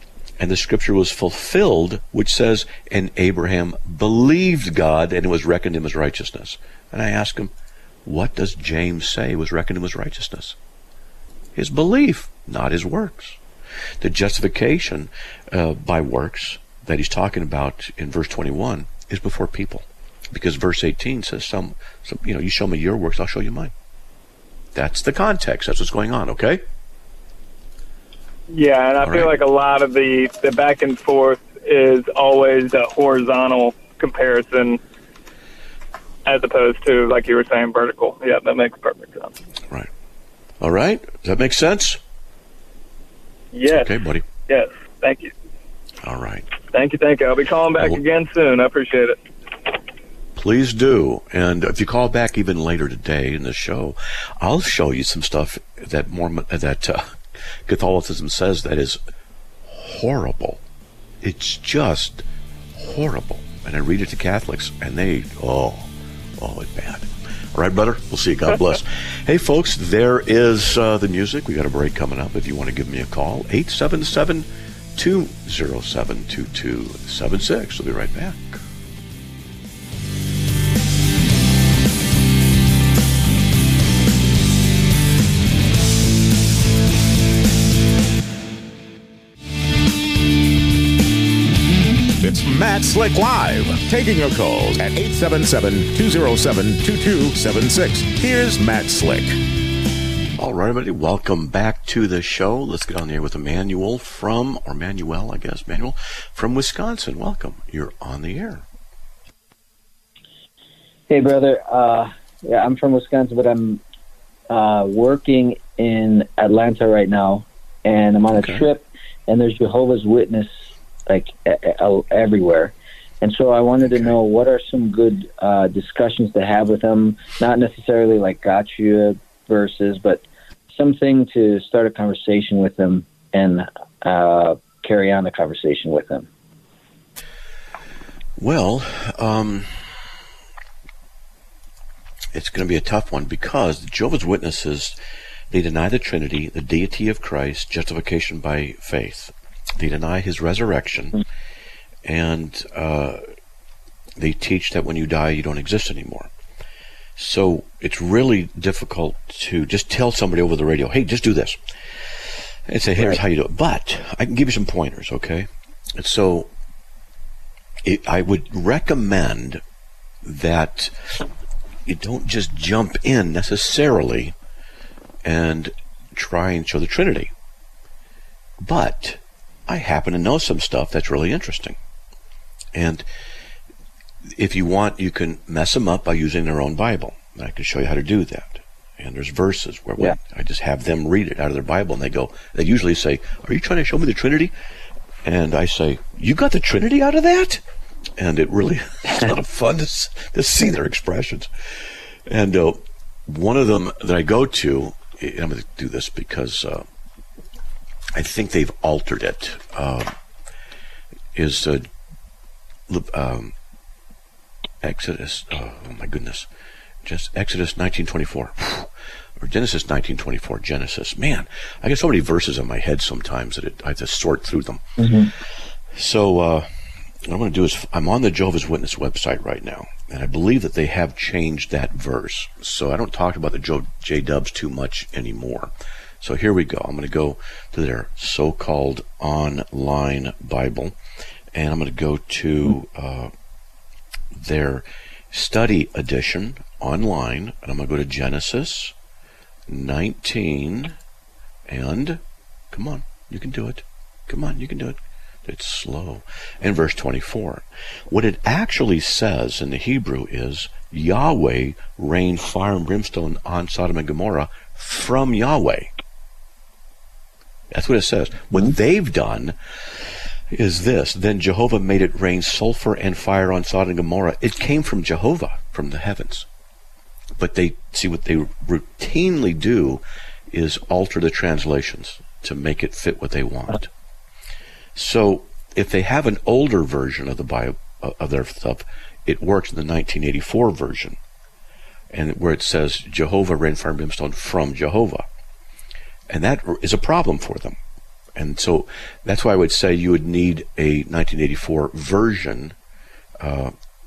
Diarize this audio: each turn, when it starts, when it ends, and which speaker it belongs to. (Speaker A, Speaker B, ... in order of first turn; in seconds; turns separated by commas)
Speaker A: 0.4-7.5, Speaker A: 8.1-10.6, Speaker A: 11.6-13.4, Speaker A: 14.0-23.7, Speaker A: 24.8-26.6, Speaker B: 28.5-34.8, Speaker A: 29.0-29.4, Speaker B: 36.3-39.3, Speaker A: 40.6-42.0, Speaker B: 43.5-44.0, Speaker A: 43.7-44.3, Speaker B: 44.5-45.3, Speaker A: 46.0-46.5, Speaker B: 46.7-49.2, Speaker A: 50.4-59.0, Speaker A: 59.7-60.6, Speaker A: 61.2-78.6, Speaker C: 92.2-99.4, Speaker A: 100.4-108.7, Speaker D: 111.1-113.8, Speaker D: 114.5-120.5, Speaker A: 118.3-118.7, Speaker D: 121.1-136.3, Speaker A: 138.4-139.9, Speaker A: 142.3-145.0, Speaker A: 145.5-151.2, Speaker A: 152.1-153.2, Speaker A: 154.2-156.3, Speaker A: 157.2-161.6, Speaker A: 162.7-166.5, Speaker A: 167.8-169.6, Speaker A: 170.2-171.2, Speaker A: 171.9-174.3, Speaker A: 175.2-177.3, Speaker A: 178.6-181.8, Speaker A: 182.7-183.1, Speaker A: 184.3-194.5, Speaker A: 195.2-197.6, Speaker A: 198.2-201.5, Speaker A: 202.3-206.8, Speaker A: 208.2-210.1, Speaker A: 211.3-211.9, Speaker A: 212.9-213.5, Speaker A: 214.8-216.5, Speaker A: 217.1-225.4, Speaker D: 225.0-225.3, Speaker A: 225.9-226.7, Speaker A: 227.2-240.9, Speaker A: 241.5-243.3, Speaker A: 244.3-248.9, Speaker A: 249.7-251.0, Speaker A: 251.7-265.9, Speaker A: 267.7-276.5, Speaker A: 277.4-283.9, Speaker A: 284.9-291.2, Speaker A: 292.1-295.3, Speaker A: 296.3-297.8, Speaker A: 298.4-302.8, Speaker A: 303.4-303.7